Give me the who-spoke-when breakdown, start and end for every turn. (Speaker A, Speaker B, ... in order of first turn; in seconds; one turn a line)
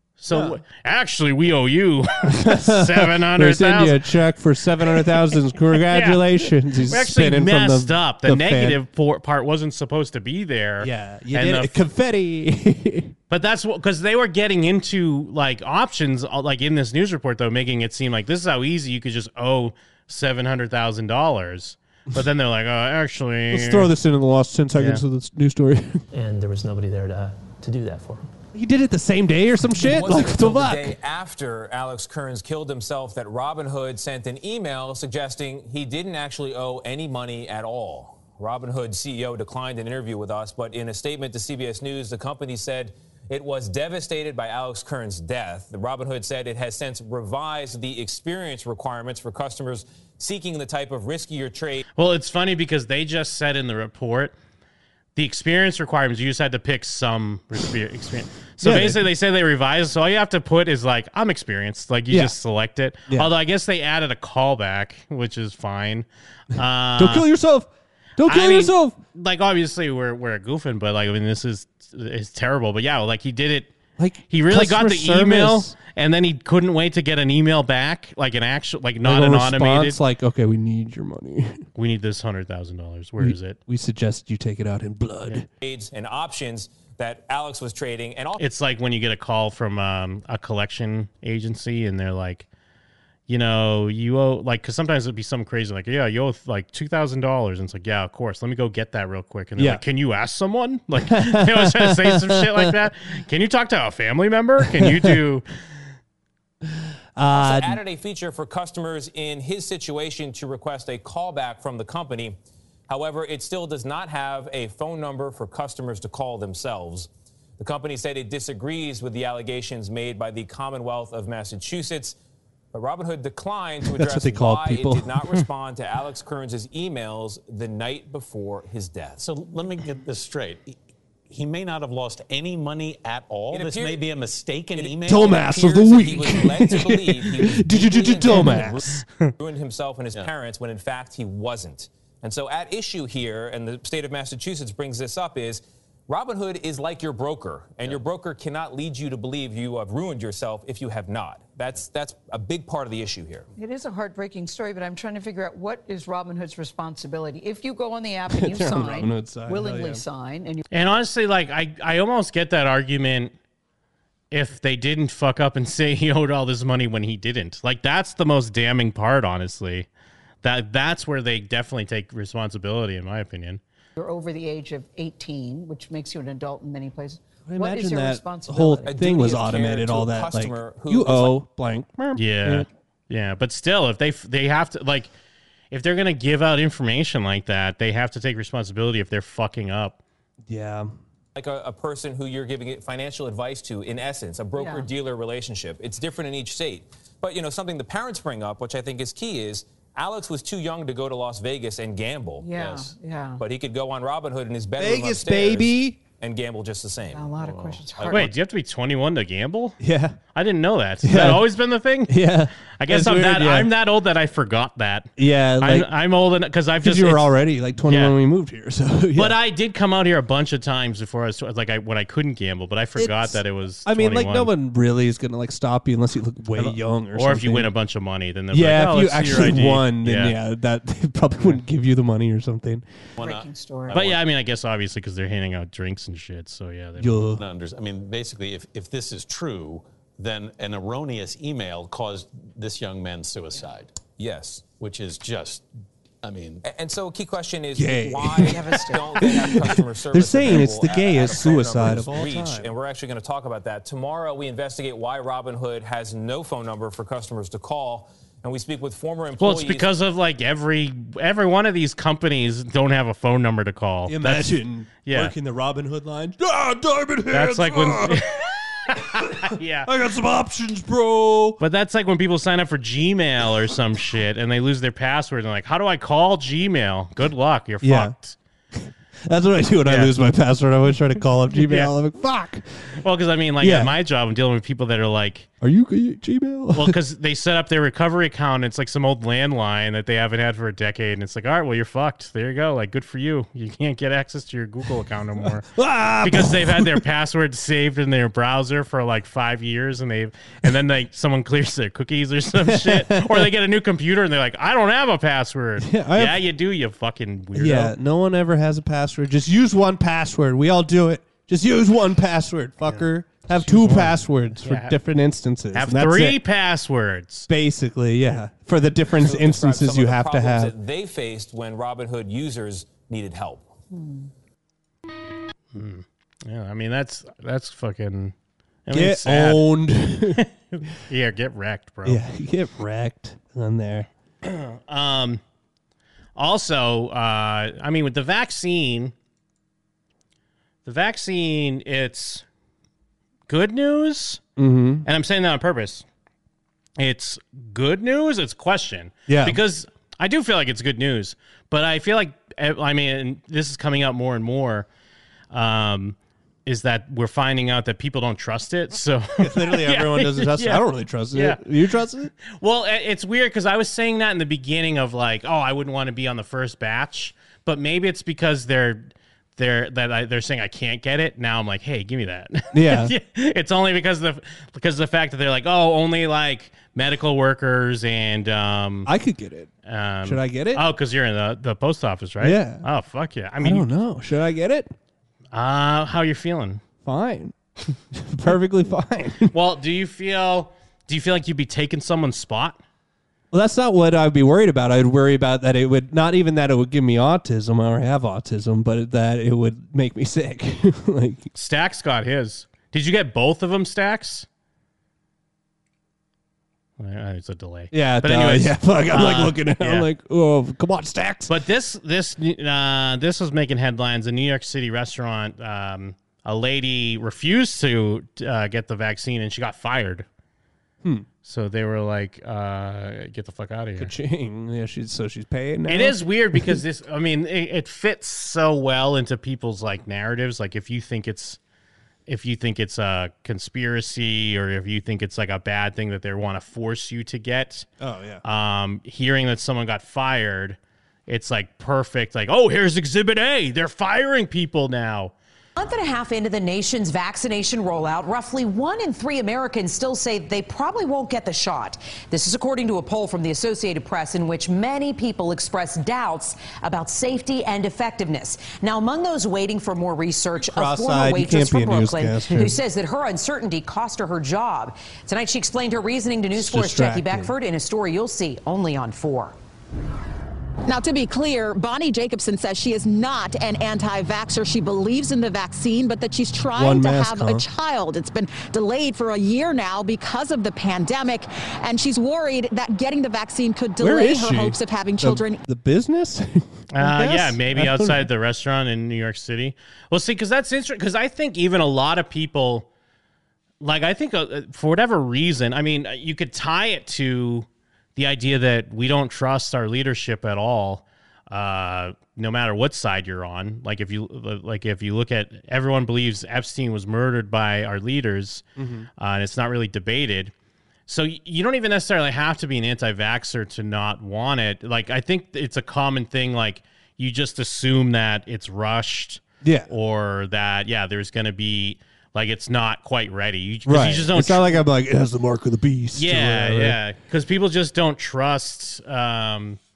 Speaker A: 0.2-4.0
Speaker B: 0.3-0.6
Speaker B: 2.3-8.8
Speaker A: 5.9-6.2
Speaker A: 6.9-11.7
Speaker B: 10.8-13.1
Speaker A: 13.3-23.9
Speaker B: 23.5-26.0
Speaker A: 24.7-25.0
Speaker C: 26.1-28.2
Speaker B: 28.5-30.9
Speaker D: 29.7-51.8
Speaker A: 52.0-54.3
Speaker A: 55.1-67.3
Speaker B: 58.6-59.0
Speaker B: 62.1-62.4
Speaker B: 67.0-69.0
Speaker A: 68.2-73.7
Speaker B: 74.0-75.7
Speaker A: 74.3-80.0
Speaker B: 79.0-81.6
Speaker A: 81.8-83.6
Speaker B: 83.2-85.5
Speaker D: 85.6-88.4
Speaker A: 88.4-92.5
Speaker A: 93.3-105.4
Speaker B: 101.0-102.7
Speaker B: 104.6-105.2
Speaker B: 107.2-107.8
Speaker D: 107.3-112.4
Speaker D: 112.9-122.2
Speaker D: 122.7-129.2
Speaker B: 123.8-125.2
Speaker E: 129.2-130.8
Speaker E: 131.3-135.5
Speaker D: 133.5-134.0
Speaker D: 134.7-138.8
Speaker B: 135.0-139.0
Speaker A: 138.8-139.3
Speaker D: 139.4-153.5
Speaker F: 153.6-160.6
Speaker B: 158.3-160.0
Speaker A: 160.7-163.3
Speaker A: 164.3-169.9
Speaker A: 170.4-173.6
Speaker F: 174.0-178.9
Speaker B: 177.5-182.7
Speaker D: 178.8-181.4
Speaker A: 182.1-185.1
Speaker A: 185.7-190.0
Speaker B: 190.5-190.9
Speaker D: 191.3-208.1
Speaker F: 194.6-194.9
Speaker F: 202.4-203.4
Speaker B: 204.8-206.0
Speaker F: 207.1-208.3
Speaker A: 208.1-209.8
Speaker B: 209.8-210.2
Speaker A: 210.3-212.1
Speaker B: 211.0-211.5
Speaker B: 212.1-213.7
Speaker A: 212.8-217.3
Speaker B: 215.2-215.9
Speaker B: 216.8-219.4
Speaker A: 217.8-218.2
Speaker A: 219.2-224.5
Speaker B: 222.9-227.7
Speaker A: 226.6-230.3
Speaker B: 228.5-232.8
Speaker F: 233.2-234.1
Speaker E: 233.2-234.2
Speaker A: 233.9-237.3
Speaker B: 237.0-237.4
Speaker E: 237.3-244.0
Speaker D: 244.2-244.7
Speaker E: 244.7-245.7
Speaker E: 246.2-246.6
Speaker D: 246.6-259.9
Speaker B: 247.8-252.7
Speaker F: 248.4-249.3
Speaker A: 259.4-265.3
Speaker B: 264.1-268.2
Speaker A: 267.3-268.4
Speaker A: 268.9-269.9
Speaker B: 268.9-271.6
Speaker A: 271.6-278.4
Speaker B: 277.8-278.1
Speaker B: 279.2-282.6
Speaker A: 279.9-280.1
Speaker A: 281.5-281.9
Speaker A: 283.0-285.5
Speaker B: 283.6-283.9
Speaker B: 285.6-286.9
Speaker A: 286.8-295.7
Speaker B: 295.7-297.0
Speaker A: 296.2-308.0
Speaker B: 302.6-303.5
Speaker B: 305.8-306.4
Speaker B: 307.5-316.4
Speaker A: 312.9-314.9
Speaker A: 315.7-317.5
Speaker B: 317.5-320.7
Speaker D: 319.1-323.7
Speaker F: 323.9-324.3
Speaker A: 325.7-328.3
Speaker A: 328.9-329.6
Speaker B: 328.9-330.4
Speaker A: 330.4-332.2
Speaker B: 332.0-334.1
Speaker A: 334.4-335.4
Speaker A: 336.4-339.1
Speaker A: 340.8-342.4
Speaker A: 343.5-344.4
Speaker B: 344.6-345.0
Speaker A: 345.0-346.0
Speaker A: 347.0-354.9
Speaker B: 349.3-349.6
Speaker A: 355.5-360.8
Speaker B: 359.4-362.3
Speaker A: 361.3-361.6
Speaker A: 362.4-379.1
Speaker B: 372.7-373.1
Speaker B: 379.1-379.7
Speaker A: 379.8-383.9
Speaker B: 380.2-380.8
Speaker B: 382.4-382.8
Speaker B: 383.6-384.9
Speaker A: 385.5-386.8
Speaker B: 387.0-387.5
Speaker B: 388.1-389.5
Speaker A: 389.5-392.8
Speaker B: 393.5-401.5
Speaker A: 401.5-404.4
Speaker A: 407.0-410.1
Speaker B: 407.9-411.5
Speaker A: 411.5-420.3
Speaker A: 421.4-424.1
Speaker B: 424.0-426.8
Speaker A: 425.9-431.6
Speaker A: 432.3-437.9
Speaker B: 438.0-438.4
Speaker A: 438.4-445.3
Speaker G: 445.8-469.5
Speaker B: 460.6-462.8
Speaker B: 466.5-467.5
Speaker H: 470.9-485.6
Speaker B: 476.7-477.6
Speaker B: 484.0-488.3
Speaker A: 486.9-492.9
Speaker A: 493.8-508.6
Speaker B: 508.8-509.1
Speaker A: 509.2-510.5
Speaker A: 511.1-524.8
Speaker B: 519.6-519.9
Speaker B: 523.9-527.0
Speaker A: 526.1-529.8